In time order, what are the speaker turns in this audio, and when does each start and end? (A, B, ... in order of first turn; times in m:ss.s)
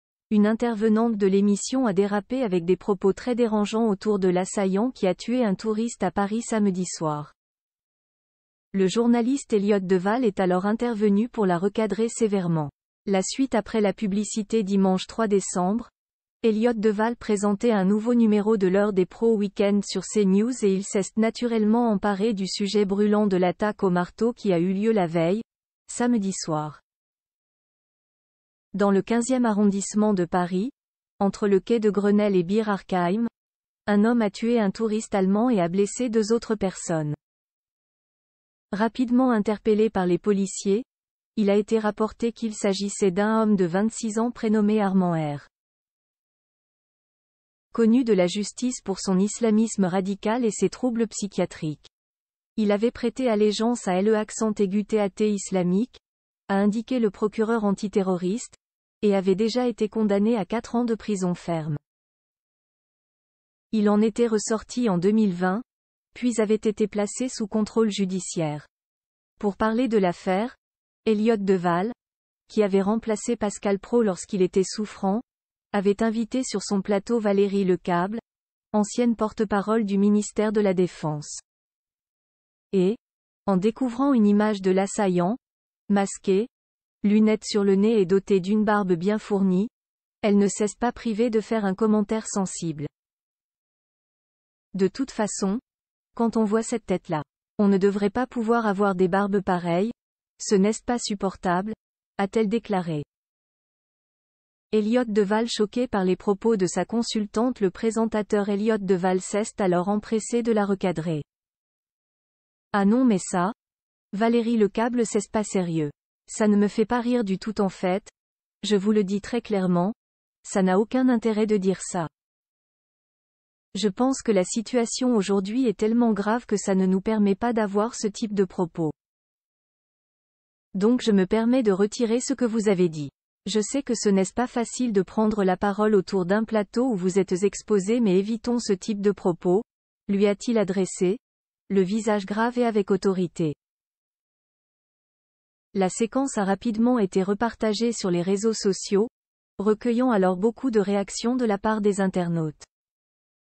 0:00.3-0:07.4 A
0:08.7-0:15.9 A
0:16.4-0:26.8 A
0:28.7-0:33.3 A
0:33.9-0:37.2 A
0:38.7-0:45.5 A
0:47.7-0:51.9 A
0:52.6-1:01.8 A
1:03.7-1:08.7 A
1:09.4-1:11.9 A
1:12.5-1:18.2 A
1:18.7-1:21.4 A
1:22.7-1:26.5 A
1:27.0-1:29.7 A
1:30.2-1:32.9 A
1:34.7-1:35.6 A
1:36.1-1:43.1 A
1:44.7-1:51.2 A
1:52.7-1:53.5 A
1:54.1-2:02.1 A
2:03.7-2:08.9 A
2:10.7-2:23.6 A
2:25.7-2:32.7 A